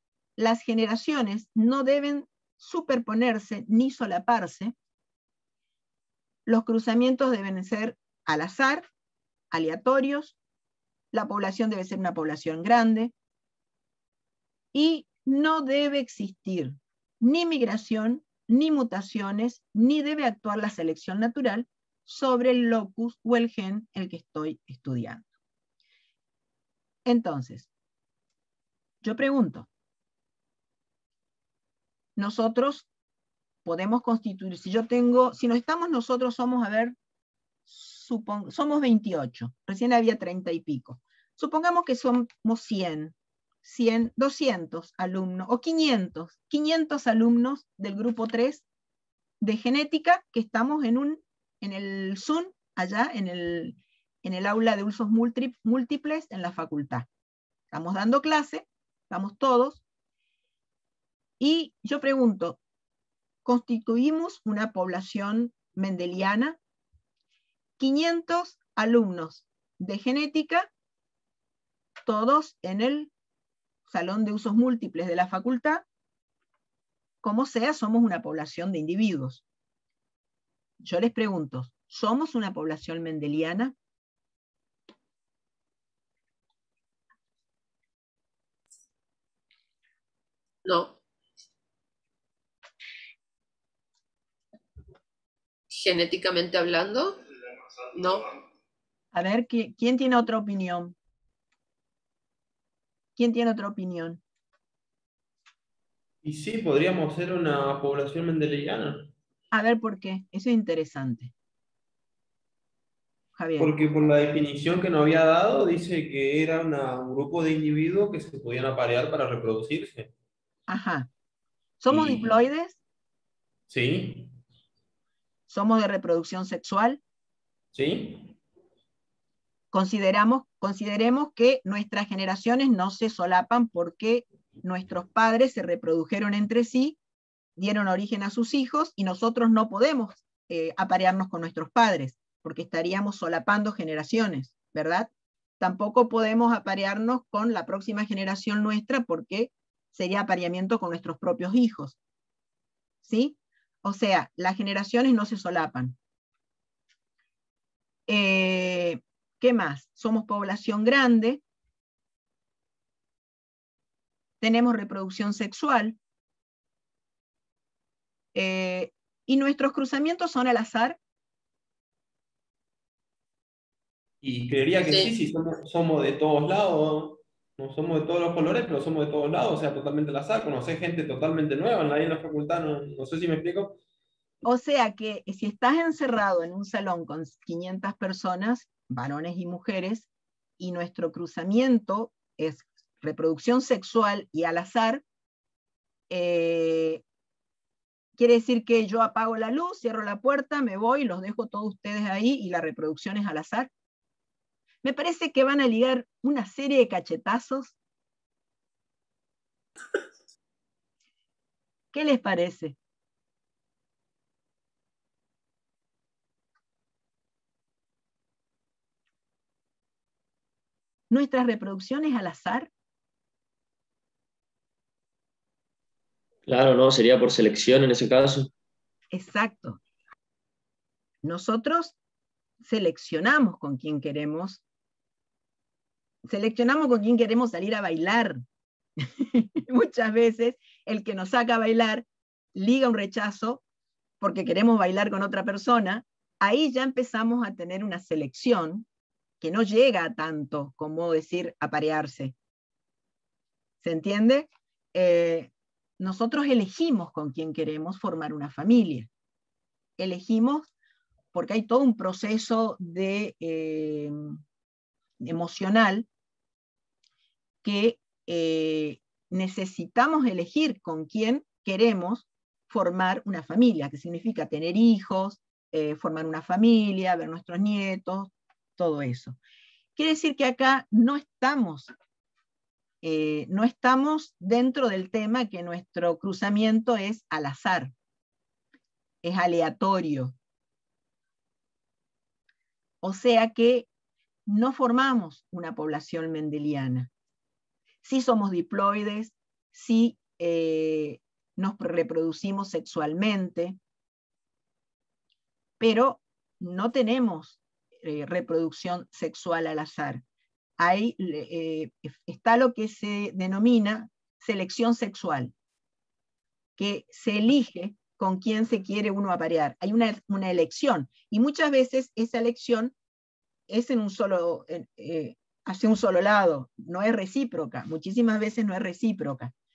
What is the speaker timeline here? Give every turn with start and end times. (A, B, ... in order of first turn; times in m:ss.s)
0:00.4-0:04.7 A
0:06.4-0:08.9 A
0:09.5-0:10.4 A
0:11.1-0:13.1 A
0:14.7-0:25.2 A
0:27.0-0:27.7 A
0:29.0-0:29.7 A
0:32.2-0:32.9 A
0:33.6-0:36.9 A
0:37.7-0:48.6 A
0:49.4-0:57.1 A
0:57.7-0:59.8 A
1:01.4-1:02.6 A
1:03.4-1:06.6 A
1:07.8-1:10.7 A
1:12.0-1:13.1 A
1:13.9-1:15.8 A
1:17.2-1:19.4 A
1:20.8-1:23.7 A
1:30.6-1:31.0 B
1:35.8-1:37.2 B
1:37.9-1:38.3 B
1:39.1-1:40.9 A
1:43.2-1:44.2 A
1:46.2-1:49.1 C
1:49.5-1:51.3 A
1:53.4-1:53.7 A
1:53.6-2:00.1 C
2:00.7-2:01.1 A
2:01.8-2:02.8 A
2:01.9-2:02.3 C
2:03.7-2:04.3 C
2:05.5-2:07.0 A
2:07.7-2:08.3 C
2:09.7-2:17.0 A
2:17.6-2:32.0 A
2:33.0-2:36.0 A
2:38.1-2:41.4 A
2:44.4-2:46.0 A
2:48.3-2:51.0 A
2:54.2-3:03.8 C
2:54.8-2:55.1 B
3:04.4-3:10.1 A
3:10.6-3:15.0 A
3:16.1-3:17.0 A
3:18.2-3:23.7 A
3:24.8-3:27.8 A
3:31.9-3:32.8 A
3:41.1-3:42.7 A
3:46.5-3:48.5 D
3:49.1-3:49.8 A
3:51.2-3:51.9 A
3:52.6-3:54.6 A
3:56.2-3:58.4 A
3:59.0-4:03.6 A
4:04.2-4:08.8 A
4:09.4-4:12.3 A
4:13.8-4:19.1 A
4:20.0-4:20.7 A
4:21.3-4:24.4 A
4:25.2-4:26.1 A
4:27.6-4:39.4 A
4:40.0-4:41.9 A
4:43.0-4:47.9 A
4:49.2-4:50.3 A
4:53.0-4:53.9 A
4:54.5-4:57.1 A
4:58.0-5:03.8 A
5:05.8-5:10.2 A
5:10.8-5:15.5 A
5:16.8-5:22.9 A
5:23.7-5:29.5 A